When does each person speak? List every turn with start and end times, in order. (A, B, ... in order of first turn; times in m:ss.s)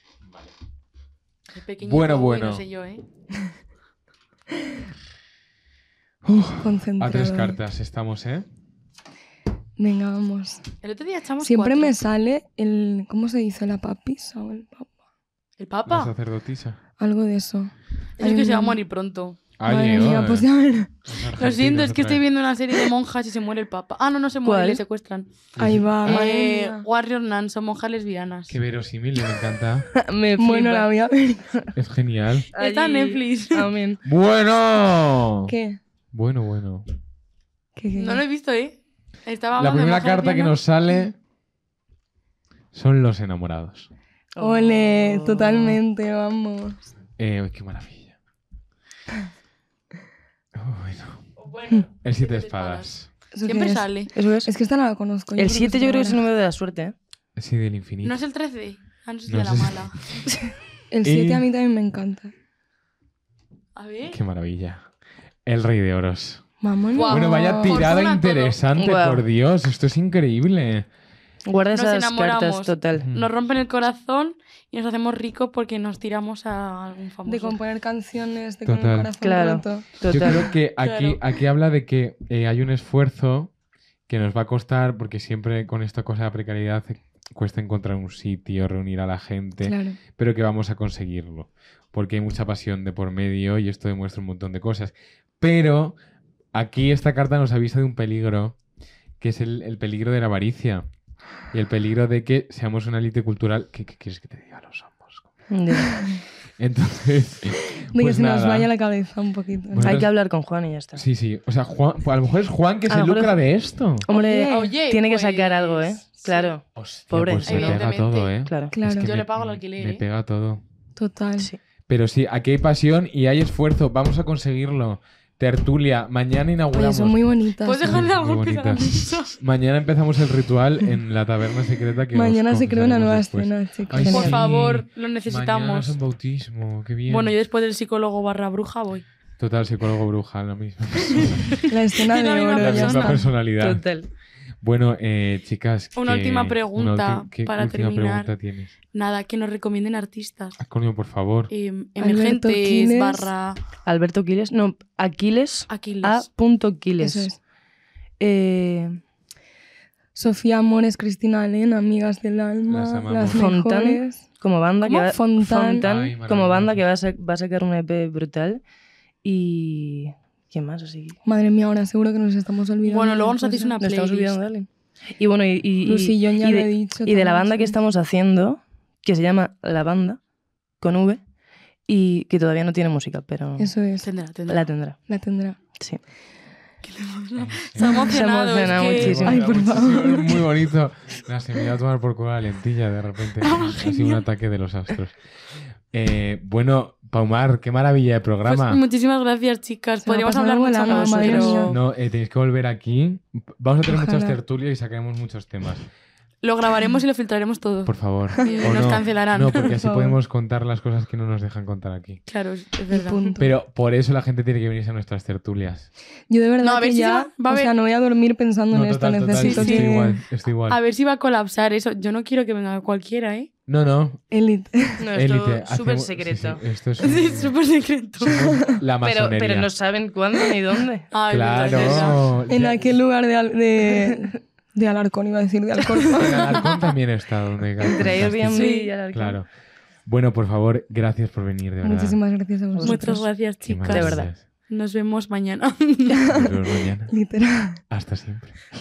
0:01.5-0:03.0 A
0:01.8-0:02.6 B
0:06.2-0:08.4 B
0:06.6-0:07.6 C
0:09.8-0:10.6 C
0:10.8-0:12.0 A
0:11.4-0:14.9 C
0:15.6-0:16.1 A
0:15.8-0:16.8 B
0:17.0-0:18.8 C
0:18.2-0:19.4 A
0:19.6-0:20.5 B
0:19.6-0:20.9 C
0:21.0-0:22.2 B
0:21.3-0:25.3 A
0:24.4-0:24.8 D
0:25.6-0:26.2 B
0:25.6-0:26.8 C
0:26.0-0:28.6 A
0:28.5-0:29.9 B
0:29.9-0:30.9 D
0:30.4-0:31.5 C
0:31.7-0:32.5 B
0:32.5-0:33.7 A
0:32.5-0:34.0 D
0:34.0-0:35.5 B
0:35.5-0:35.8 C
0:36.1-0:36.8 B
0:37.8-0:38.2 C
0:38.0-0:40.6 A
0:39.6-0:41.2 B
0:42.7-0:43.9 B
0:44.4-0:45.8 D
0:44.4-0:46.9 C
0:47.2-0:48.2 B
0:50.5-0:51.3 B
0:51.4-0:54.1 A
0:52.0-0:53.1 B
0:53.3-0:53.9 C
0:54.1-0:54.5 D
0:54.4-0:56.2 C
0:55.4-0:56.9 D
0:57.4-0:58.2 B
0:58.0-1:00.0 A
0:59.3-1:00.2 B
1:00.9-1:02.3 C
1:01.0-1:01.5 B
1:03.7-1:04.2 A
1:04.1-1:04.9 B
1:05.4-1:06.4 B
1:06.6-1:07.8 C
1:06.9-1:08.6 A
1:07.0-1:10.9 B
1:08.7-1:09.2 D
1:11.4-1:13.1 D
1:11.7-1:17.6 A
1:13.0-1:13.3 B
1:17.3-1:20.3 C
1:18.6-1:19.1 B
1:19.2-1:20.5 D
1:20.0-1:23.5 B
1:20.8-1:21.3 A
1:24.1-1:36.0 B
1:29.6-1:30.0 C
1:36.5-1:38.6 B
1:39.2-1:40.8 B
1:41.5-1:45.3 B
1:45.5-1:46.0 D
1:46.6-1:48.7 B
1:47.8-1:50.0 C
1:49.7-1:50.1 B
1:49.8-1:51.0 D
1:51.0-1:54.0 B
1:52.9-1:53.4 D
1:54.0-1:57.8 D
1:54.1-1:54.7 C
1:54.4-1:56.5 A
1:56.7-2:00.6 B
1:57.4-1:58.3 A
1:58.4-1:58.7 D
1:58.7-1:59.1 C
1:58.9-2:00.0 A
2:01.0-2:01.5 C
2:01.9-2:07.2 B
2:06.7-2:08.1 C
2:07.6-2:09.4 A
2:07.8-2:17.4 B
2:12.1-2:14.4 C
2:14.0-2:14.4 D
2:14.1-2:16.0 A
2:17.1-2:19.0 A
2:19.4-2:21.6 B
2:21.2-2:23.2 A
2:21.7-2:23.3 C
2:22.5-2:23.8 B
2:23.6-2:24.1 D
2:24.6-2:28.7 B
2:26.0-2:28.3 A
2:28.9-2:30.6 A
2:30.6-2:31.5 B
2:31.5-2:33.6 A
2:32.0-2:33.3 C
2:33.8-2:37.3 D
2:35.7-2:36.3 A
2:37.0-2:37.4 C
2:38.2-2:39.0 D
2:40.1-2:44.2 C
2:42.7-2:43.5 B
2:43.3-2:48.6 D
2:44.8-2:45.1 A
2:44.8-2:45.9 C
2:45.8-2:46.8 B
2:49.2-2:51.2 D
2:51.2-2:53.7 C
2:52.8-2:54.4 A
2:53.8-3:00.2 D
2:55.8-2:57.7 C
3:00.8-3:01.2 D
3:01.9-3:03.7 D
3:03.6-3:04.1 C
3:04.0-3:04.7 A
3:04.5-3:05.0 D
3:05.1-3:05.6 C
3:06.8-3:09.4 A
3:07.4-3:15.2 B
3:07.9-3:09.4 D
3:09.2-3:10.4 C
3:13.4-3:14.2 A
3:15.9-3:18.8 B
3:18.4-3:21.8 A
3:20.0-3:21.8 C
3:20.9-3:21.6 D
3:21.7-3:25.8 B
3:23.9-3:24.4 C
3:26.4-3:29.8 A
3:27.8-3:32.2 B
3:28.4-3:28.9 C
3:29.8-3:30.2 C
3:32.3-3:33.3 A
3:32.9-3:33.5 C
3:33.4-3:35.9 B
3:36.3-3:40.2 C
3:36.6-3:37.7 A
3:38.7-3:40.8 B
3:39.4-3:43.5 A
3:43.7-3:44.2 B
3:44.3-3:45.0 C
3:45.0-3:46.6 D
3:45.1-3:47.6 B
3:47.0-3:48.6 A
3:48.2-3:49.7 B
3:48.4-3:48.7 C
3:49.0-3:52.4 D
3:51.1-3:52.2 A
3:51.3-3:52.9 B
3:52.5-3:56.6 C
3:54.0-3:54.4 D
3:56.1-3:59.5 B
3:56.1-3:56.9 A
3:57.8-3:59.4 D
3:58.5-3:58.9 A
4:00.0-4:02.2 B
4:01.8-4:03.2 C
4:02.8-4:03.2 D
4:02.8-4:06.4 A
4:03.6-4:04.4 B
4:03.9-4:04.3 D
4:06.3-4:07.2 B
4:07.1-4:07.8 C
4:07.9-4:08.6 B